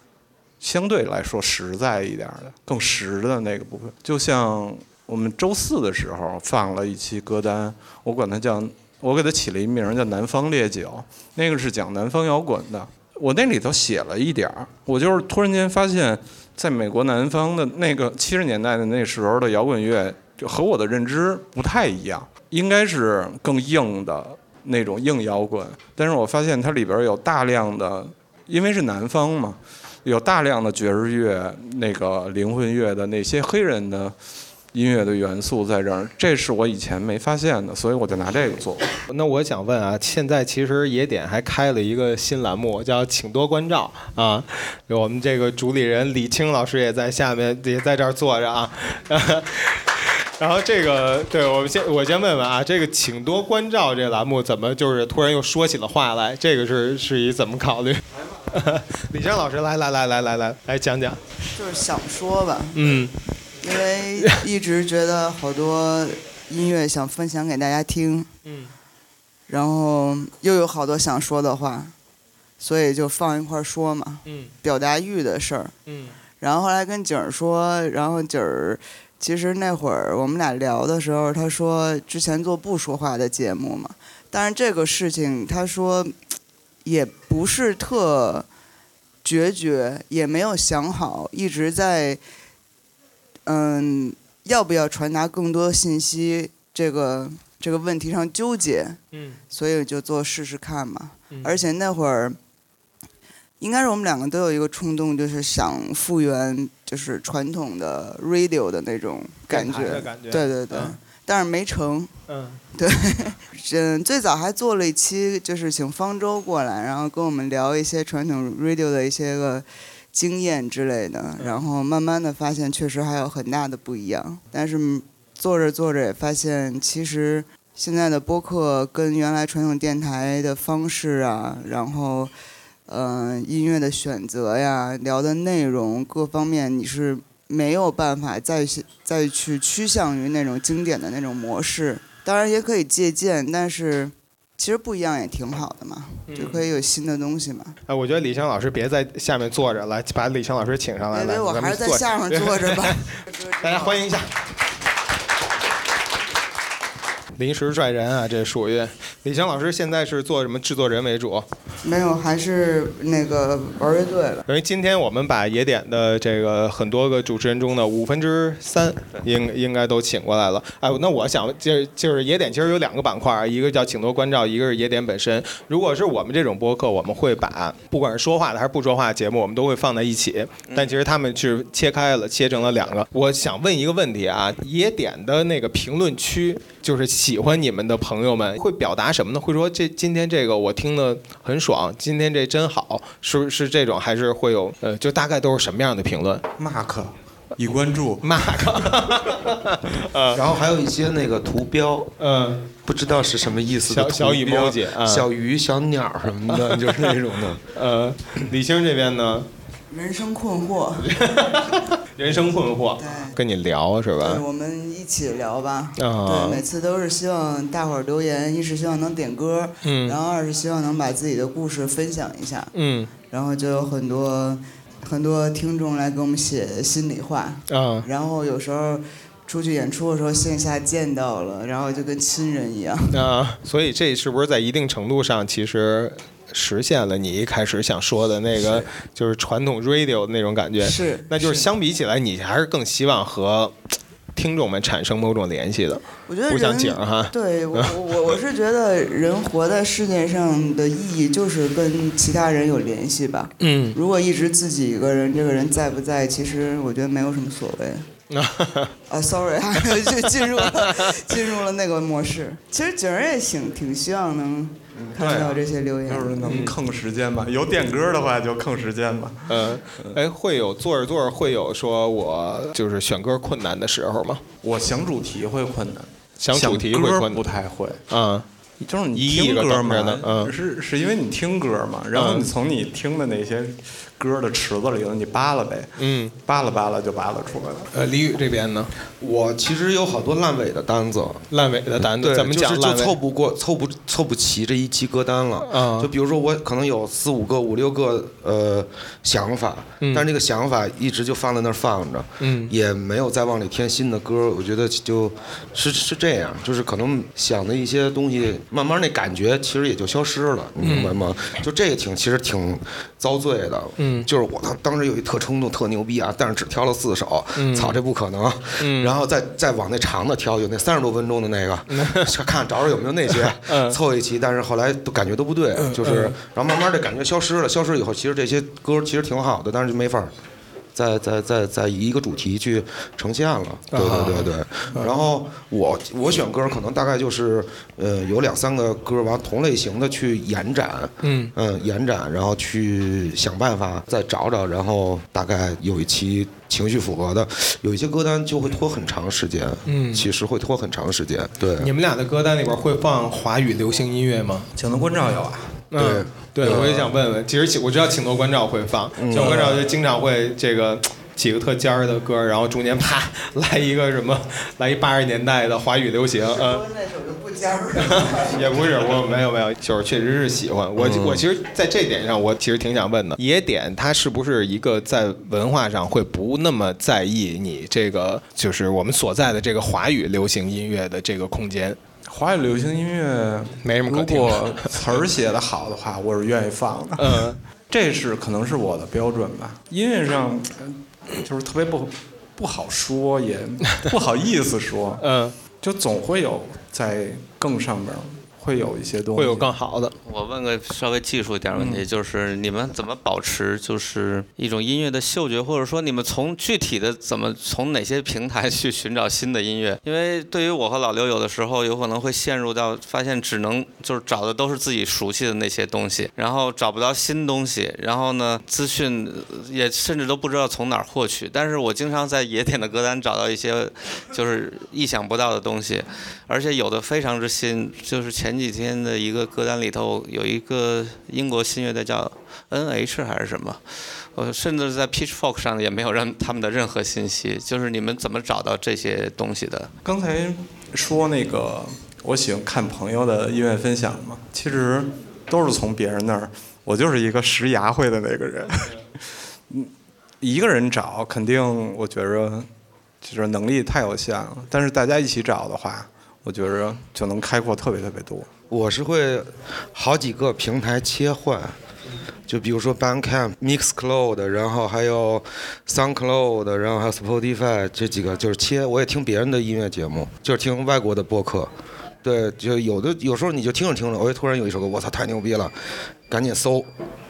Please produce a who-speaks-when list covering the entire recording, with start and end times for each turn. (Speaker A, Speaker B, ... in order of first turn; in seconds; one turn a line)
Speaker A: 0.6-34.1
Speaker A: 34.7-39.0
Speaker B: 39.1-61.2
Speaker C: 61.5-63.0
Speaker B: 62.7-63.1
Speaker C: 63.6-68.3
Speaker B: 68.5-68.7
Speaker C: 69.5-71.9
Speaker C: 72.6-75.7
Speaker B: 74.3-74.5
Speaker B: 75.9-76.2
Speaker C: 76.4-86.1
Speaker C: 86.8-88.5
Speaker C: 89.2-92.2
Speaker C: 93.5-102.4
Speaker B: 99.1-99.4
Speaker B: 101.3-101.6
Speaker C: 103.6-112.2
Speaker B: 109.5-111.0
Speaker B: 112.3-112.6
Speaker C: 112.8-132.3
Speaker C: 132.9-147.8
Speaker B: 146.3-146.7
Speaker B: 147.9-154.3
Speaker C: 151.1-154.0
Speaker B: 157.3-161.5
Speaker C: 161.8-164.4
Speaker B: 164.5-196.4
Speaker A: 196.6-198.9
Speaker B: 198.2-200.4
Speaker D: 200.3-202.1
Speaker B: 202.2-202.7
Speaker D: 202.8-207.6
Speaker B: 203.9-205.3
Speaker B: 206.5-207.0
Speaker B: 207.7-209.5
Speaker C: 209.9-211.1
Speaker B: 211.0-214.4
Speaker C: 213.0-213.4
Speaker C: 214.2-222.7
Speaker B: 216.0-216.6
Speaker B: 219.8-220.2
Speaker B: 222.7-223.1
Speaker C: 223.3-233.3
Speaker B: 227.7-228.1
Speaker B: 233.1-243.8
Speaker C: 240.8-241.7
Speaker B: 244.3-247.9
Speaker C: 246.3-258.1
Speaker B: 253.6-254.0
Speaker B: 258.3-258.9
Speaker C: 259.1-266.7
Speaker A: 265.1-270.2
Speaker B: 266.4-266.8
Speaker B: 269.5-274.4
Speaker A: 274.6-278.0
Speaker B: 276.4-277.4
Speaker B: 278.1-278.5
Speaker A: 278.9-285.9
Speaker B: 279.1-280.5
Speaker B: 282.1-282.5
Speaker B: 286.0-286.3
Speaker A: 286.5-287.9
Speaker B: 287.9-288.9
Speaker D: 289.2-291.5
Speaker B: 291.5-293.2
Speaker D: 292.0-330.3
Speaker B: 295.6-296.1
Speaker B: 300.0-300.3
Speaker B: 302.4-302.7
Speaker B: 310.8-311.1
Speaker B: 314.0-314.3
Speaker B: 317.6-318.0
Speaker B: 318.8-319.2
Speaker B: 321.9-322.3
Speaker B: 323.5-324.0
Speaker B: 325.8-326.4
Speaker D: 330.9-351.9
Speaker B: 333.9-335.1
Speaker B: 341.2-341.5
Speaker B: 349.9-350.3
Speaker B: 351.8-354.7
Speaker A: 354.8-355.8
Speaker B: 355.9-366.8
Speaker D: 355.9-357.2
Speaker D: 359.2-359.7
Speaker A: 359.3-359.8
Speaker C: 366.5-369.1
Speaker B: 368.0-382.0
Speaker D: 371.0-371.4
Speaker A: 382.3-395.2
Speaker B: 383.8-384.9
Speaker B: 387.2-387.6
Speaker B: 395.2-395.6
Speaker A: 395.8-399.7
Speaker B: 399.4-400.1
Speaker E: 400.2-439.9
Speaker A: 440.0-449.0
Speaker A: 449.7-452.7
Speaker A: 453.2-458.5
Speaker D: 458.7-461.8
Speaker D: 462.5-471.7
Speaker D: 472.2-476.9